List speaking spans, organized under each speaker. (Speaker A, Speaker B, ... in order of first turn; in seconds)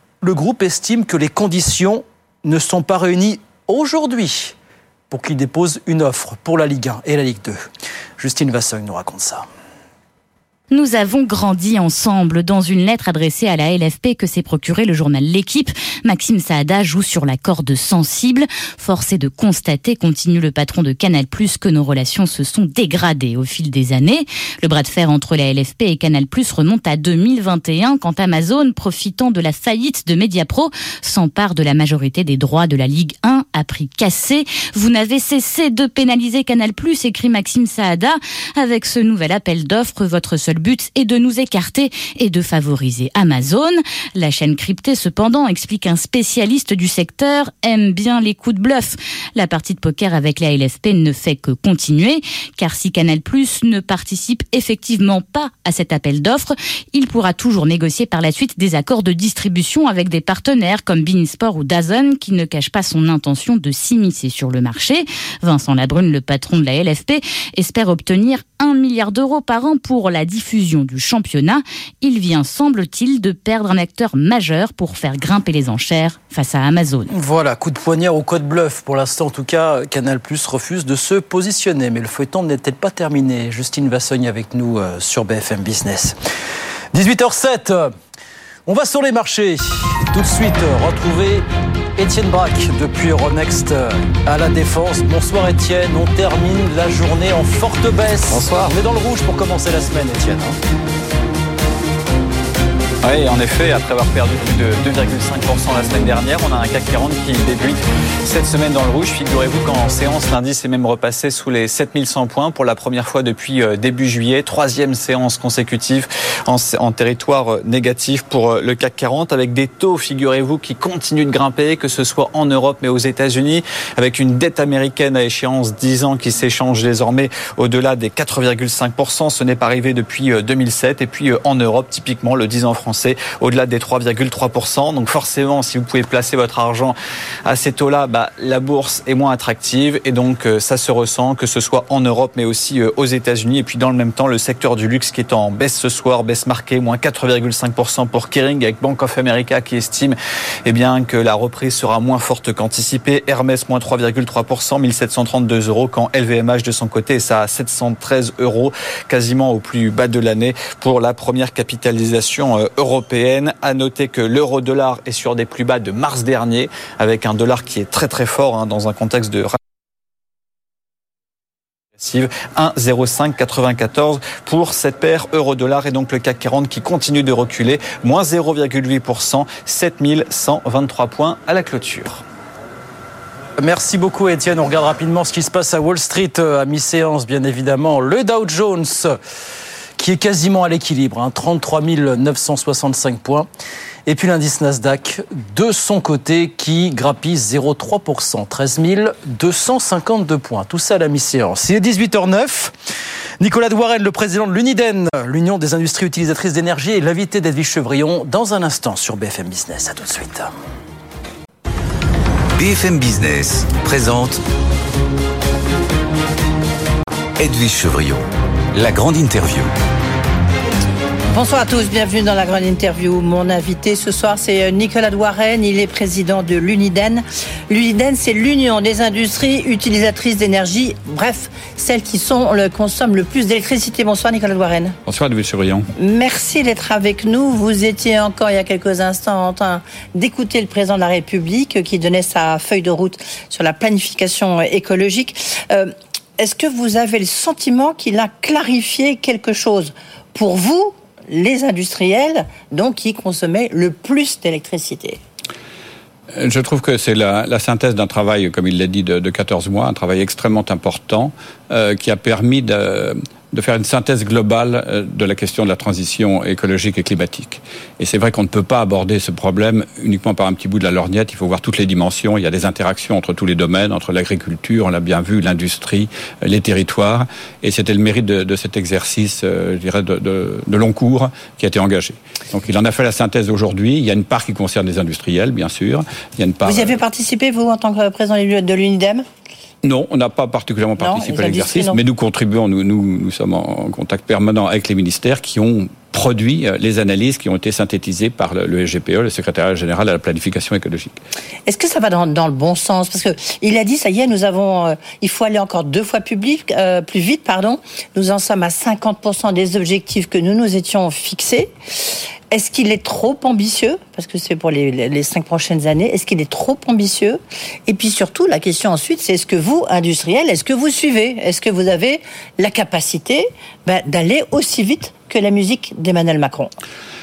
Speaker A: 0.2-4.5, 5.1-7.7, 8.2-9.5, 77.1-86.2, 86.9-87.9, 88.7-91.5, 92.0-100.6, 183.6-189.2, 190.0-193.5, 194.1-202.7, 203.4-210.5
Speaker B: 10.7-77.1
Speaker C: 98.3-98.7, 103.0-169.6, 172.0-182.2
Speaker D: 212.6-214.4, 217.4-219.7
Speaker E: 221.3-235.0, 236.0-255.2, 286.6-289.2, 291.0-292.0, 301.7-311.7, 312.5-326.7
Speaker F: 235.1-235.9, 256.4-287.0, 289.8-301.2